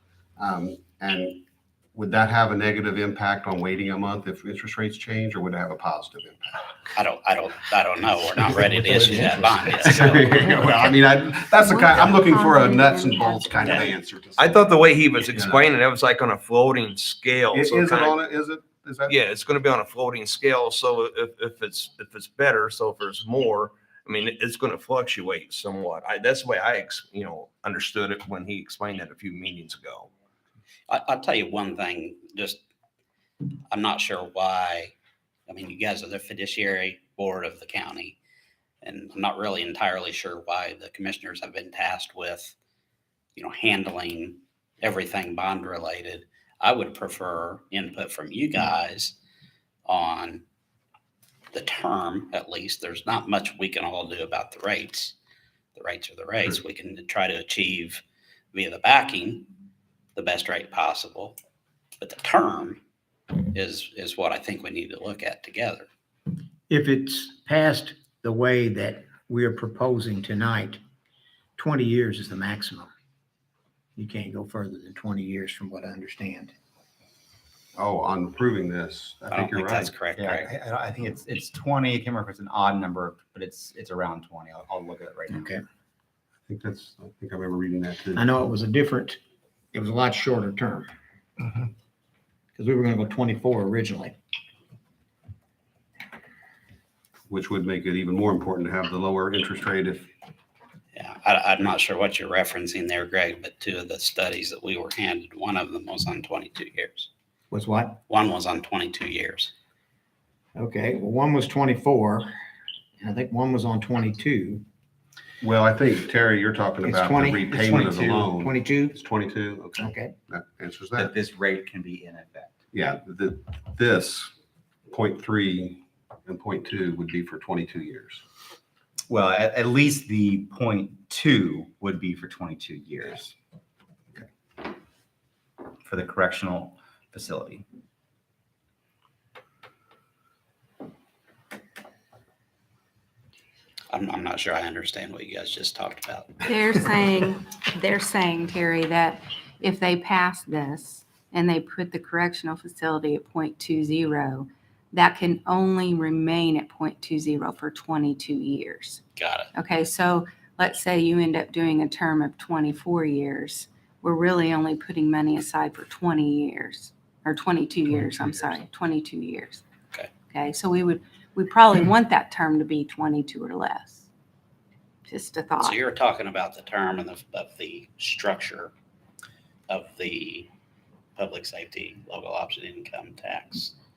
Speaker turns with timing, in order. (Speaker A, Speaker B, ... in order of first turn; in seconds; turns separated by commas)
Speaker A: 0.4-1.4, Speaker A: 1.9-6.8, Speaker B: 7.0-10.4, Speaker A: 8.7-14.7, Speaker C: 11.7-13.9, Speaker D: 14.4-18.2, Speaker A: 15.3-15.6, Speaker A: 17.5-19.2, Speaker D: 19.1-30.1, Speaker B: 30.9-32.6, Speaker B: 33.7-34.9, Speaker B: 35.5-38.2, Speaker B: 38.8-42.5, Speaker B: 43.4-49.1, Speaker B: 49.9-50.4, Speaker B: 51.5-55.1, Speaker B: 55.8-59.5, Speaker B: 60.1-61.4, Speaker B: 62.0-62.8, Speaker B: 63.5-65.9, Speaker E: 66.7-70.8, Speaker E: 71.6-72.9, Speaker E: 74.0-76.5, Speaker A: 77.8-79.9, Speaker B: 79.3-80.5, Speaker F: 80.1-85.5, Speaker E: 85.3-85.6, Speaker A: 86.5-88.3, Speaker E: 88.1-89.2, Speaker E: 89.7-90.9, Speaker E: 92.5-94.1, Speaker A: 97.3-100.1, Speaker B: 100.9-107.1, Speaker E: 107.5-108.0, Speaker B: 108.1-109.5, Speaker E: 110.5-112.3, Speaker E: 113.0-114.6, Speaker A: 115.4-121.1, Speaker E: 116.8-119.0, Speaker F: 117.7-118.2, Speaker E: 119.8-120.1, Speaker F: 121.0-122.5, Speaker A: 122.7-124.3, Speaker A: 124.9-128.2, Speaker F: 129.1-133.3, Speaker F: 135.8-137.6, Speaker B: 143.9-146.4, Speaker C: 146.4-159.0, Speaker B: 159.2-159.5, Speaker C: 159.5-169.6, Speaker C: 170.3-174.1, Speaker C: 175.1-175.8, Speaker B: 175.6-178.7, Speaker B: 179.7-180.5, Speaker B: 181.2-183.7